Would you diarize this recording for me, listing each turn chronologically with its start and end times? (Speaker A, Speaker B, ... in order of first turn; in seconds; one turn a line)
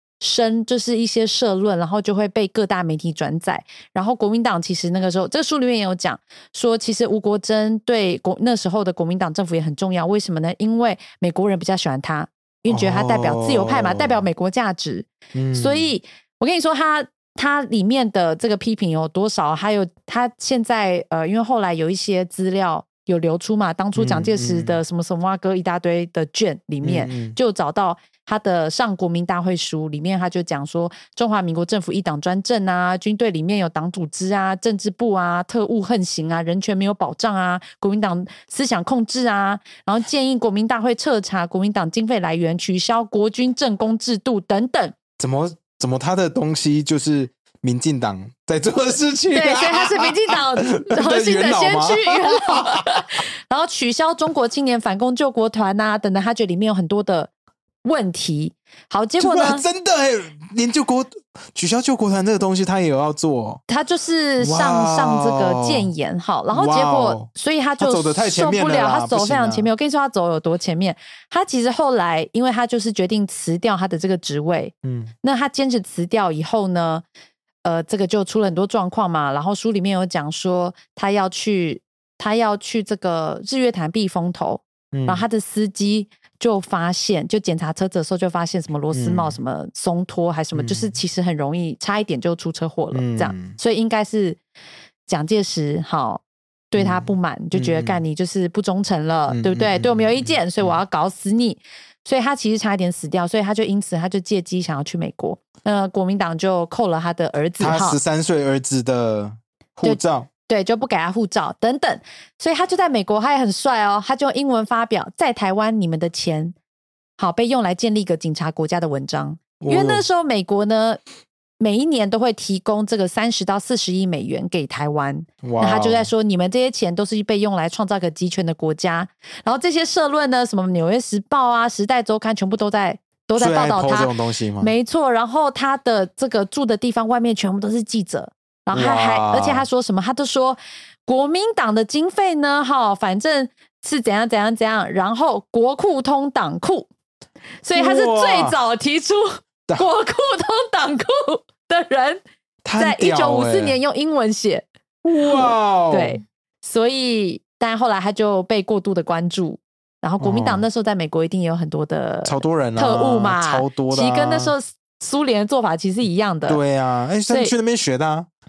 Speaker A: 0.2-45.0
Speaker B: 12.7-14.2
Speaker B: 15.3-15.9
Speaker B: 23.9-24.8
Speaker B: 26.8-27.4
Speaker B: 45.2-53.0
Speaker A: 49.3-57.3
Speaker A: 57.8-59.6
Speaker B: 59.2-63.6
Speaker A: 63.7-77.0
Speaker B: 64.4-65.9
Speaker B: 66.5-69.7
Speaker B: 74.8-75.1
Speaker A: 77.6-94.4
Speaker B: 84.9-85.2
Speaker B: 88.9-89.4
Speaker B: 90.5-91.0
Speaker B: 92.9-93.6
Speaker A: 95.1-108.0
Speaker B: 96.8-98.0
Speaker B: 99.3-100.8
Speaker B: 107.6-110.3
Speaker A: 109.8-116.5
Speaker A: 117.2-121.0
Speaker B: 119.6-120.0
Speaker A: 121.6-146.9
Speaker B: 125.4-126.1
Speaker B: 133.4-134.7
Speaker B: 138.7-139.7
Speaker A: 147.6-152.2
Speaker B: 147.7-148.6
Speaker B: 152.6-153.8
Speaker A: 152.8-154.6
Speaker B: 155.0-156.2
Speaker A: 155.2-166.6
Speaker B: 160.2-160.6
Speaker B: 162.2-164.5
Speaker B: 166.5-168.3